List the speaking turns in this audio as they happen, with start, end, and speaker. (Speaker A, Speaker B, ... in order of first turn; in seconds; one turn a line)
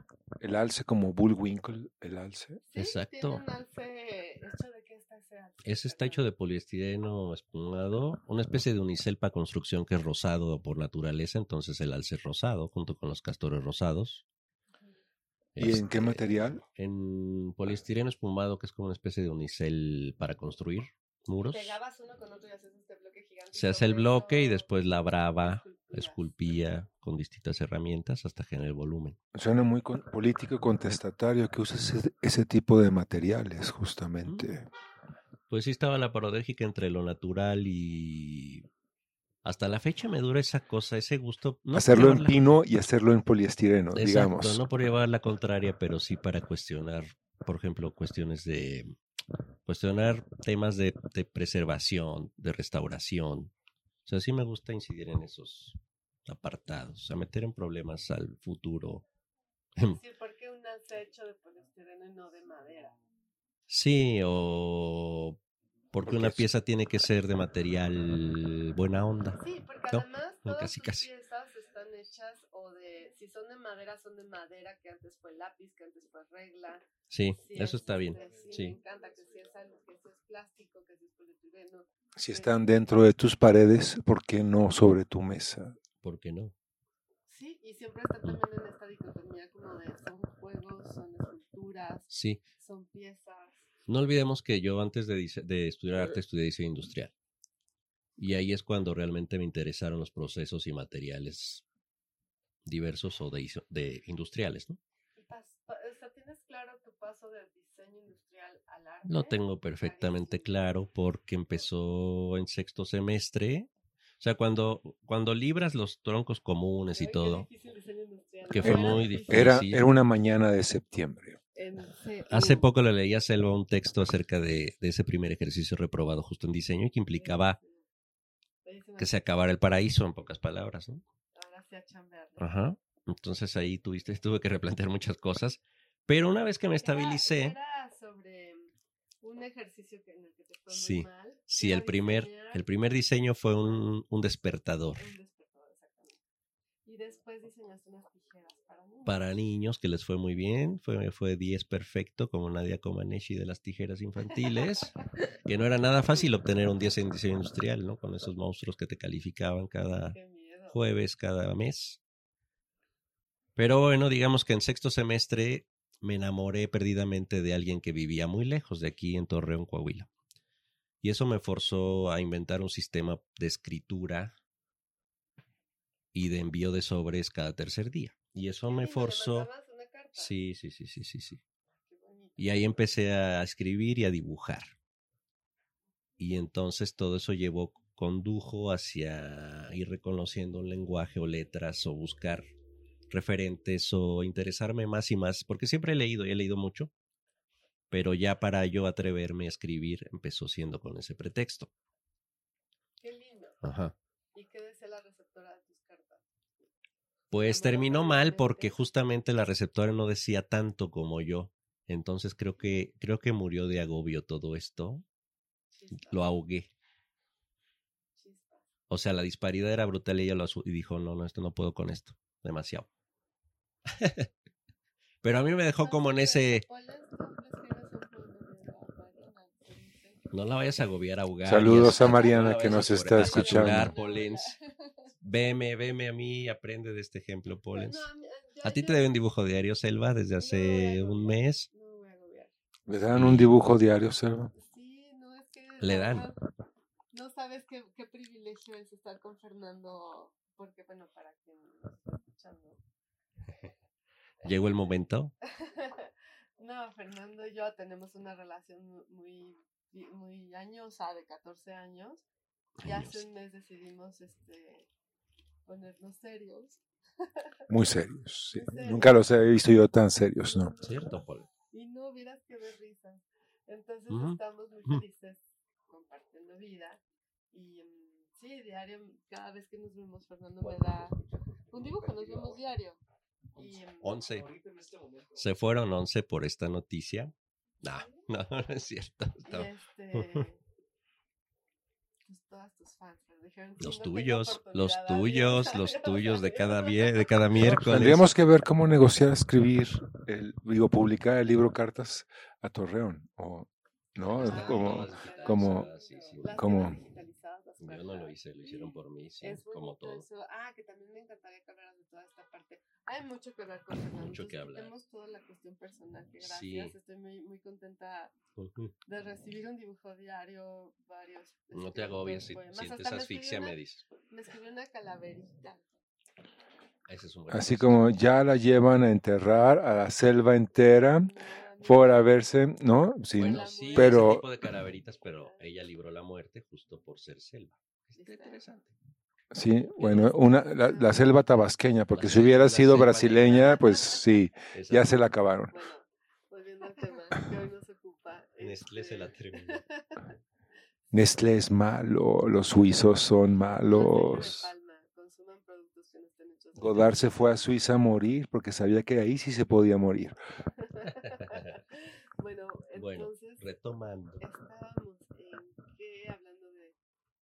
Speaker A: 0.4-2.6
Speaker B: 2.7-6.2
Speaker C: 2.8-3.4
Speaker C: 5.6-14.2
Speaker C: 15.6-21.7
Speaker A: 15.6-16.6
Speaker B: 16.2-16.6
Speaker B: 21.5-24.7
Speaker C: 23.5-29.2
Speaker B: 25.4-26.2
Speaker A: 29.3-34.7
Speaker C: 35.5-38.6
Speaker C: 39.4-42.4
Speaker A: 41.7-44.6
Speaker C: 43.9-48.9
Speaker C: 49.6-53.5
Speaker C: 54.1-59.0
Speaker B: 59.9-62.9
Speaker C: 63.7-65.4
Speaker C: 65.9-71.1
Speaker A: 66.1-66.5
Speaker B: 69.4-76.8
Speaker C: 77.1-78.8
Speaker B: 77.4-82.8
Speaker A: 82.2-85.7
Speaker C: 86.0-86.5
Speaker B: 87.3-93.7
Speaker C: 92.1-92.4
Speaker C: 93.9-97.1
Speaker C: 98.2-101.6
Speaker C: 102.7-104.8
Speaker B: 105.2-110.6
Speaker C: 109.1-117.5
Speaker B: 116.9-119.6
Speaker C: 118.5-119.9
Speaker A: 118.6-121.4
Speaker B: 121.5-122.7
Speaker C: 122.3-127.6
Speaker B: 127.1-127.8
Speaker B: 128.6-129.2
Speaker C: 129.0-131.0
Speaker B: 131.3-132.5
Speaker C: 132.4-137.6
Speaker B: 136.8-138.7
Speaker B: 139.2-142.6
Speaker C: 140.7-145.1
Speaker B: 144.9-146.2
Speaker B: 146.8-149.3
Speaker C: 149.1-160.2
Speaker B: 160.1-160.8
Speaker C: 160.7-162.0
Speaker C: 163.6-170.1
Speaker C: 171.0-174.3
Speaker C: 176.1-179.5
Speaker B: 178.7-180.3
Speaker C: 180.1-181.4
Speaker B: 181.8-182.8
Speaker C: 182.4-184.7
Speaker C: 186.2-192.4
Speaker C: 193.1-196.9
Speaker C: 197.9-201.7
Speaker B: 203.0-203.6
Speaker C: 203.6-203.9
Speaker B: 204.3-206.2
Speaker C: 207.3-215.1
Speaker B: 207.4-208.7
Speaker B: 215.7-216.2
Speaker C: 216.0-216.7
Speaker B: 218.2-218.6
Speaker C: 218.9-222.9
Speaker C: 223.9-224.3
Speaker C: 225.2-226.6
Speaker B: 225.8-230.3
Speaker C: 230.3-234.5
Speaker A: 231.4-233.9
Speaker B: 231.9-235.1
Speaker C: 235.2-238.1
Speaker B: 237.7-239.1
Speaker C: 238.6-241.7
Speaker B: 240.4-242.5
Speaker A: 242.9-244.5
Speaker C: 243.1-243.6
Speaker B: 244.6-246.4
Speaker C: 245.8-246.3
Speaker B: 247.1-252.8
Speaker C: 254.4-255.3
Speaker B: 255.5-262.2
Speaker C: 262.8-263.2
Speaker B: 262.8-264.9
Speaker B: 265.6-267.4
Speaker A: 267.7-270.7
Speaker B: 268.5-269.3
Speaker B: 270.4-271.2
Speaker C: 270.8-271.5
Speaker B: 271.7-277.0
Speaker C: 274.1-275.0
Speaker B: 277.5-281.1
Speaker C: 280.6-282.5
Speaker B: 281.7-283.0
Speaker B: 283.6-284.2
Speaker C: 283.6-290.4
Speaker B: 289.4-290.6
Speaker B: 292.3-297.4
Speaker C: 293.8-298.3
Speaker A: 297.6-305.9
Speaker C: 304.3-306.6
Speaker B: 304.4-318.3
Speaker A: 306.5-307.0
Speaker C: 307.8-310.2
Speaker C: 314.1-314.9
Speaker C: 316.4-316.9
Speaker C: 318.6-318.9
Speaker B: 319.1-323.8
Speaker C: 321.7-324.1
Speaker B: 324.3-325.8
Speaker C: 327.1-328.1
Speaker A: 327.5-334.4
Speaker B: 331.2-332.4
Speaker B: 333.4-334.4
Speaker C: 333.4-338.9
Speaker B: 338.1-338.6
Speaker A: 339.5-345.7
Speaker C: 340.0-340.3
Speaker B: 340.0-341.4
Speaker C: 342.1-343.9
Speaker C: 344.7-345.1
Speaker B: 345.7-350.2
Speaker C: 348.6-349.8
Speaker A: 351.1-354.7
Speaker B: 353.7-357.4
Speaker A: 356.8-360.4
Speaker C: 356.8-357.2
Speaker B: 360.8-363.6
Speaker C: 361.1-361.8
Speaker C: 362.9-364.4
Speaker B: 364.4-366.9